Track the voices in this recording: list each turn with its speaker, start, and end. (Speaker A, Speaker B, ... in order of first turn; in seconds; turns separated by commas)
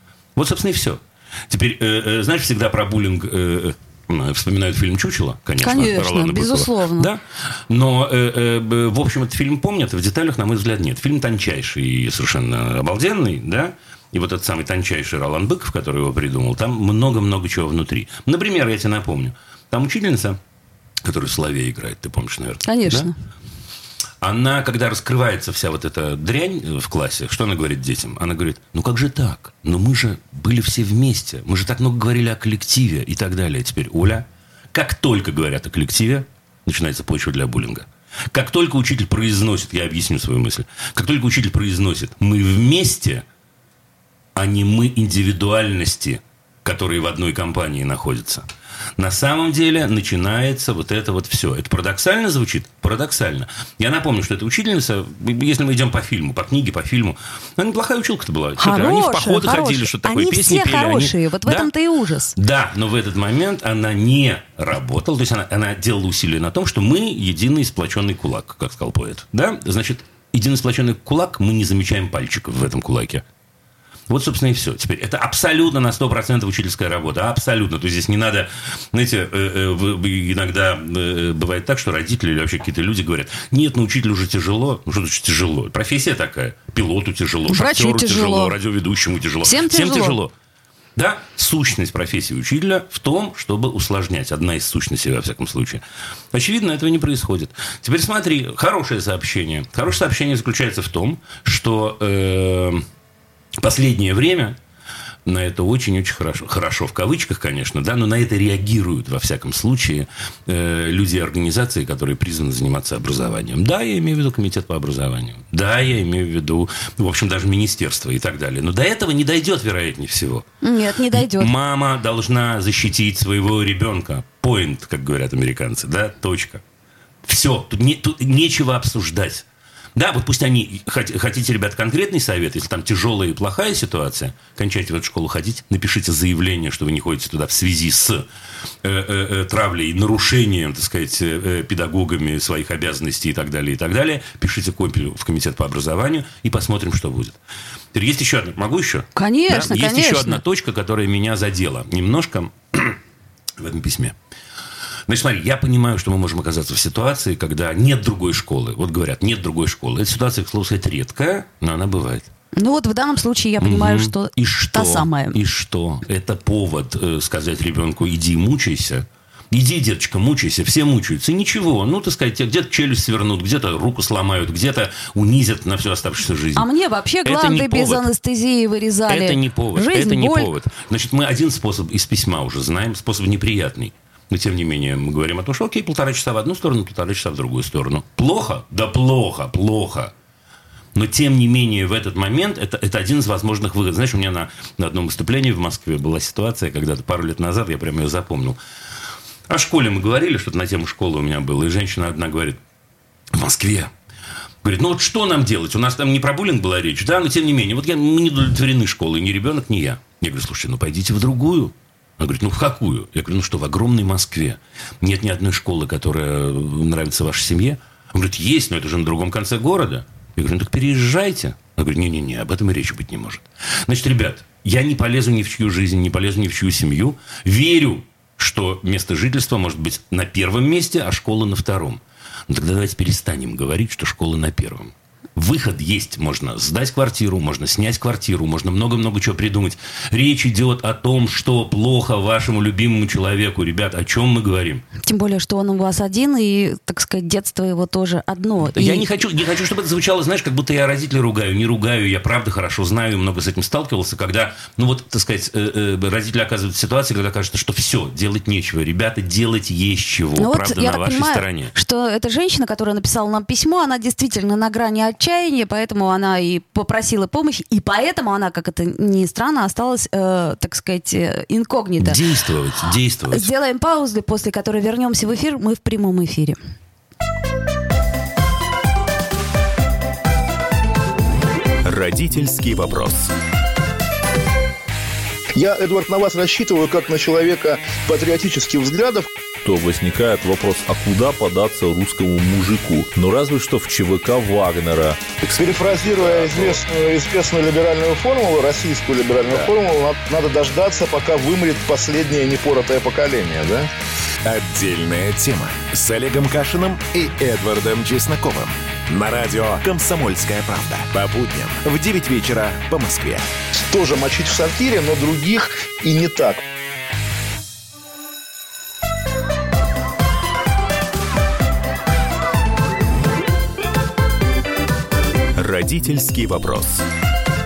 Speaker A: 0.4-20.4, Speaker B: 5.6-7.1, Speaker A: 21.0-23.1, Speaker B: 22.6-23.1, Speaker A: 24.2-43.2, Speaker A: 44.4-48.5, Speaker A: 49.0-61.7, Speaker B: 58.6-62.3, Speaker A: 62.4-73.2, Speaker A: 74.1-90.3, Speaker B: 87.5-88.5, Speaker B: 89.4-90.2, Speaker A: 91.0-95.8, Speaker A: 96.3-102.8, Speaker A: 103.6-104.6, Speaker A: 105.3-120.5, Speaker B: 120.6-121.5, Speaker A: 121.1-126.6, Speaker A: 127.2-138.3, Speaker A: 138.8-147.4, Speaker A: 147.9-153.0, Speaker B: 149.2-150.4, Speaker A: 153.6-154.2, Speaker A: 155.1-162.3, Speaker B: 162.6-165.4, Speaker A: 163.6-176.7, Speaker B: 176.6-180.5, Speaker A: 177.2-178.1, Speaker A: 179.1-190.1, Speaker A: 190.9-198.6, Speaker A: 199.5-202.6, Speaker A: 203.3-203.9, Speaker A: 204.6-244.8, Speaker B: 245.0-249.1, Speaker A: 248.7-261.7, Speaker B: 260.4-272.2, Speaker A: 272.0-273.5, Speaker B: 273.3-276.6, Speaker C: 281.9-283.3, Speaker D: 285.6-289.3, Speaker E: 289.6-295.4, Speaker D: 295.4-303.9, Speaker C: 304.4-313.5, Speaker D: 313.9-316.6, Speaker C: 325.6-327.0